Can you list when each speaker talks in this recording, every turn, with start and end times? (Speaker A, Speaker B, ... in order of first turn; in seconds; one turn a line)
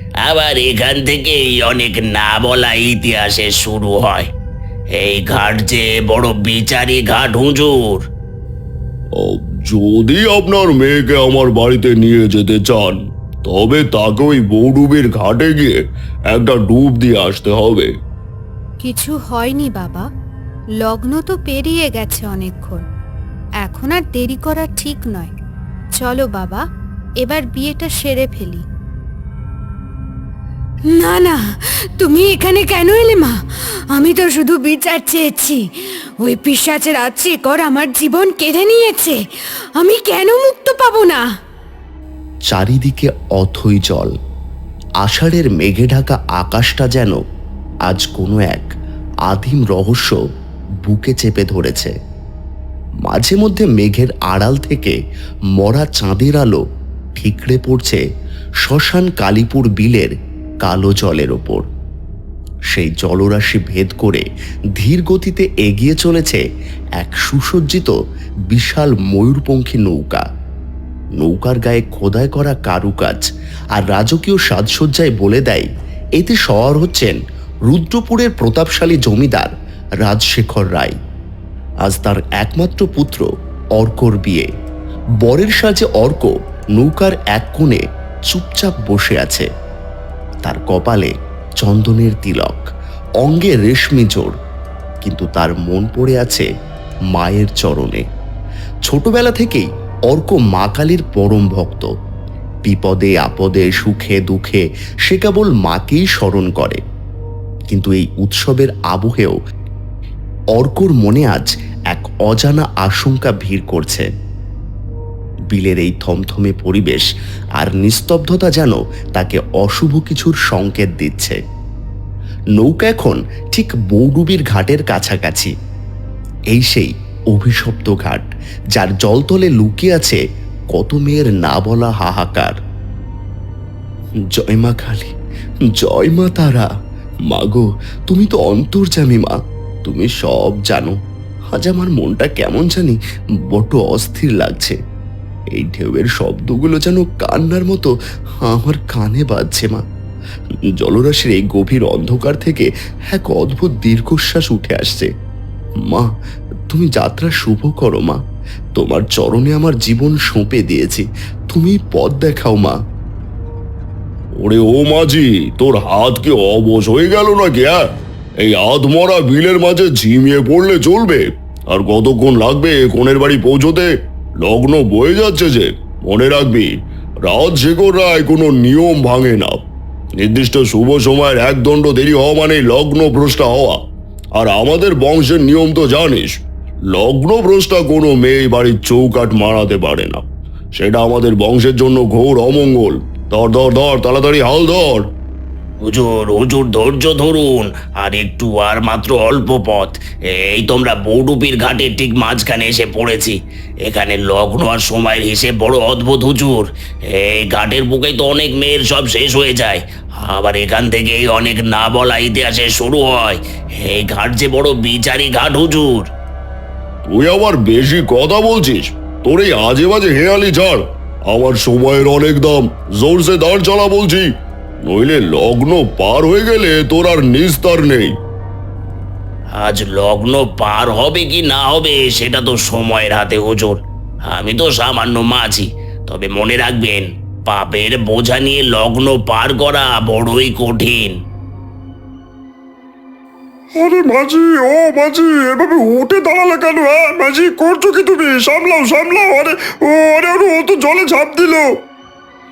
Speaker A: 0.2-4.3
Speaker A: 4.9-8.1
Speaker B: 9.2-15.7
Speaker B: 16.3-17.9
Speaker C: 18.8-20.1
Speaker C: 20.8-22.8
Speaker C: 23.6-25.3
Speaker C: 25.9-26.6
Speaker C: 27.2-28.6
Speaker C: 30.9-31.4
Speaker C: 32.0-33.4
Speaker C: 33.9-35.6
Speaker C: 36.2-39.1
Speaker C: 39.8-41.2
Speaker D: 42.5-44.1
Speaker D: 45.0-47.2
Speaker D: 47.9-48.7
Speaker D: 49.3-50.2
Speaker D: 50.9-51.9
Speaker D: 53.0-55.0
Speaker D: 55.6-56.6
Speaker D: 57.2-58.0
Speaker D: 58.6-60.1
Speaker D: 60.6-61.6
Speaker D: 62.7-64.2
Speaker D: 64.8-66.4
Speaker D: 67.0-67.9
Speaker D: 68.5-70.2
Speaker D: 71.2-79.5
Speaker D: 80.0-80.9
Speaker D: 81.8-84.5
Speaker D: 85.2-89.5
Speaker D: 90.4-92.6
Speaker D: 93.2-94.3
Speaker D: 95.0-96.5
Speaker D: 97.1-98.0
Speaker D: 98.9-101.9
Speaker D: 102.7-106.8
Speaker D: 107.7-109.3
Speaker D: 110.5-114.1
Speaker D: 115.5-117.1
Speaker D: 117.6-121.4
Speaker D: 122.6-125.5
Speaker D: 126.5-130.2
Speaker D: 130.7-132.5
Speaker D: 134.3-135.1
Speaker D: 135.8-136.7
Speaker D: 137.3-140.9
Speaker D: 141.5-143.0
Speaker D: 143.5-144.8
Speaker D: 145.5-149.8
Speaker D: 150.8-155.1
Speaker D: 156.7-158.2
Speaker D: 158.7-162.8
Speaker B: 164.4-167.9
Speaker B: 168.4-173.9
Speaker B: 174.4-176.7
Speaker B: 177.2-179.6
Speaker B: 180.2-183.8
Speaker B: 184.3-190.2
Speaker B: 190.8-195.1
Speaker A: 195.8-216.1
Speaker B: 217.1-224.3
Speaker B: 224.8-228.1
Speaker A: 229.5-241.2
Speaker E: 246.6-247.4
Speaker B: 247.8-248.1
Speaker E: 247.9-248.2
Speaker E: 249.1-251.7